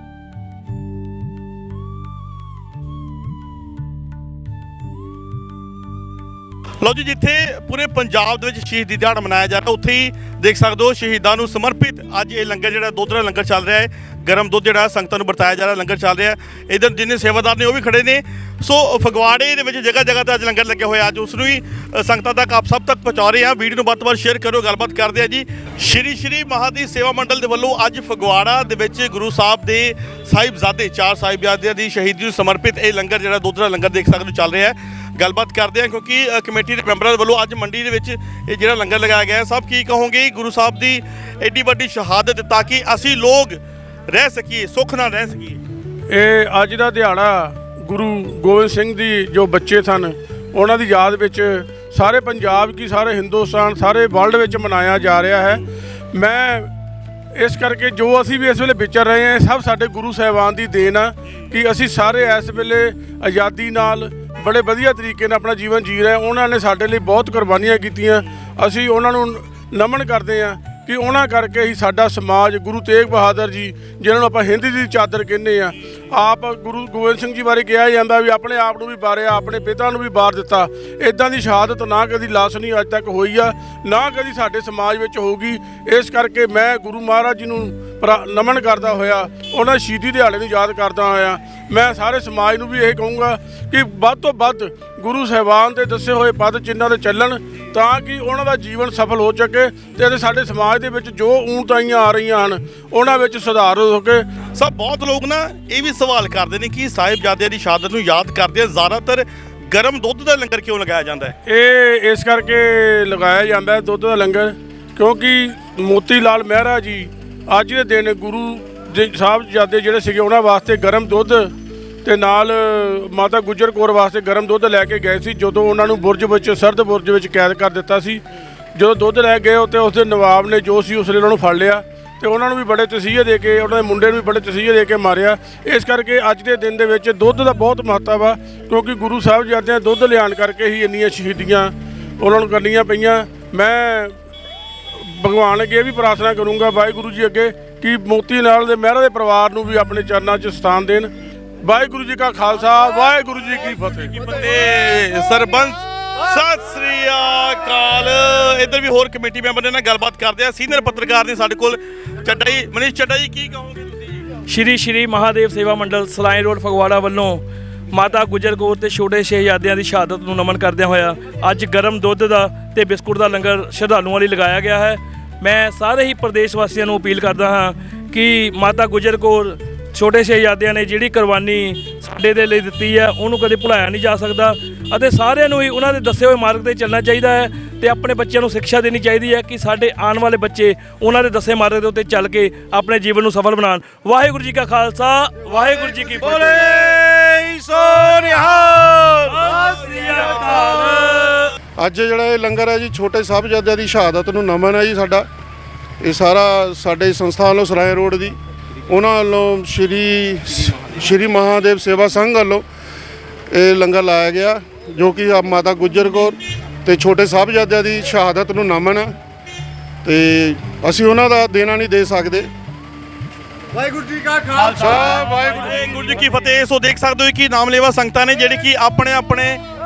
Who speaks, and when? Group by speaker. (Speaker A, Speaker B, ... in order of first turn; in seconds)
Speaker A: 6.8-45.6, 104.5-111.3, 154.2-164.1, 196.4-199.3, 224.4-229.6
Speaker B: 46.1-55.6, 56.1-56.7, 57.4-104.3, 111.5-121.5, 122.0-128.2, 128.7-144.2, 145.0-151.1, 151.6-154.2
Speaker C: 164.5-196.8, 199.3-201.5
Speaker D: 201.8-205.3, 206.0-212.6, 213.5-219.1, 220.0-222.5, 224.6-225.6